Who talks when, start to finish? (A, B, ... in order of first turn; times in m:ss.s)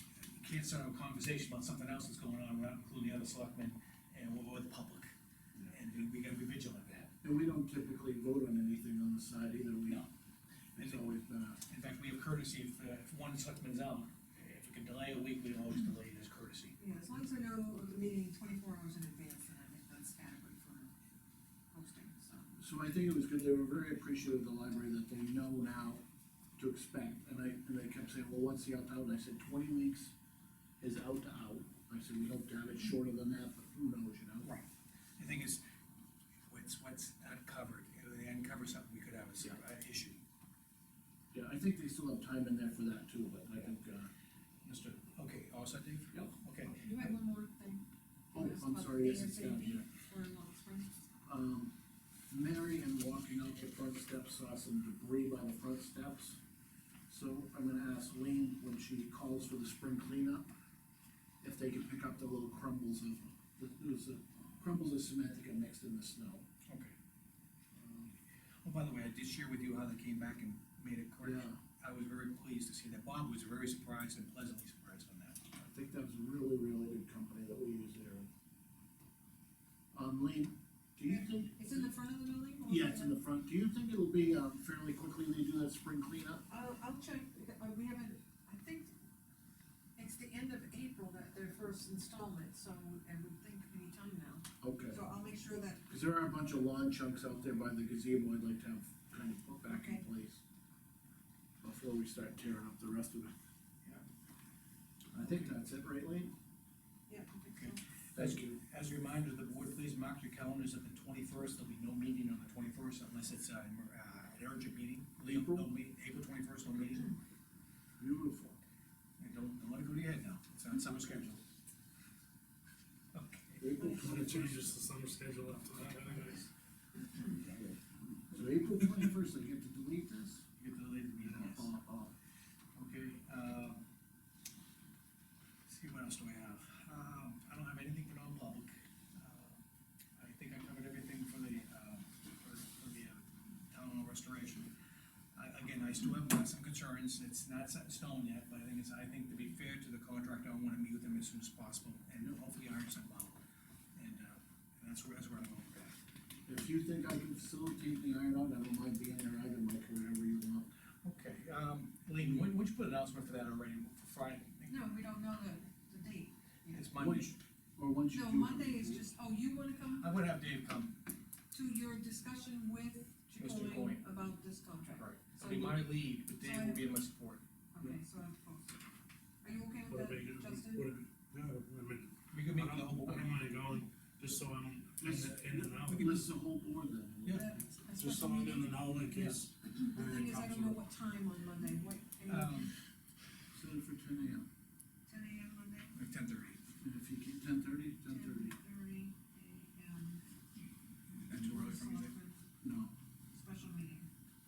0:00.2-0:05.1 A
0:05.7-0:07.1 A
0:07.2-0:10.0 B
0:10.7-0:11.6 B
0:10.8-0:11.0 A
0:11.7-0:16.8 A
0:16.8-0:20.9 C
0:21.7-0:22.5 C
0:22.6-0:26.0 B
0:26.6-0:30.1 B
0:30.8-0:34.5 B
0:34.4-0:34.7 A
0:35.2-0:35.6 A
0:36.5-0:40.2 A
0:41.3-0:44.1 B
0:44.6-0:46.8 A
0:46.7-0:47.8 C
0:48.3-0:49.8 B
0:48.3-0:50.9 C
0:51.2-0:51.7 B
0:52.3-0:56.4 B
0:57.1-1:00.5 B
1:01.4-1:06.4 B
1:06.7-1:06.9 A
1:07.7-1:08.1 B
1:08.6-1:15.4 A
1:11.2-1:11.6 B
1:15.5-1:18.3 B
1:19.9-1:21.6 B
1:21.6-1:23.1 C
1:22.7-1:26.4 B
1:26.5-1:28.9 C
1:30.0-1:35.8 C
1:34.6-1:35.0 B
1:35.9-1:40.4 B
1:39.6-1:40.0 C
1:41.6-1:43.3 B
1:45.1-1:46.3 B
1:47.1-1:47.8 C
1:47.5-1:57.1 A
1:48.1-1:48.6 B
1:55.2-1:55.7 B
1:58.0-1:58.6 B
1:59.2-2:01.4 A
2:03.1-2:03.8 A
2:03.6-2:04.6 B
2:03.8-2:06.5 D
2:05.8-2:06.4 A
2:08.3-2:10.4 B
2:10.6-2:11.7 A
2:11.2-2:12.1 B
2:12.7-2:13.8 A
2:15.6-2:19.6 A
2:20.2-2:24.7 A
2:25.3-2:33.4 A
2:34.0-2:36.0 A
2:36.4-2:40.7 B
2:41.0-2:44.8 A
2:42.2-2:42.5 B
2:44.7-2:46.9 C
2:46.7-2:47.4 A
2:47.0-2:49.0 B
2:48.1-2:50.1 C
2:50.0-2:51.0 A
2:51.5-2:57.0 C
2:53.4-2:54.0 A
2:55.0-2:57.9 A
2:57.7-2:58.8 C
2:59.4-3:00.8 C
2:59.9-3:06.2 D
3:02.3-3:03.4 A
3:05.0-3:07.6 B
3:05.9-3:06.3 A
3:07.2-3:07.5 A
3:07.3-3:12.7 C
3:07.9-3:10.8 D
3:12.2-3:12.7 A
3:13.5-3:14.4 B
3:15.1-3:15.9 C
3:15.9-3:16.6 A
3:16.8-3:18.5 B
3:18.0-3:20.2 C
3:21.1-3:22.1 A
3:21.4-3:22.4 C
3:22.6-3:22.9 B
3:23.3-3:24.1 C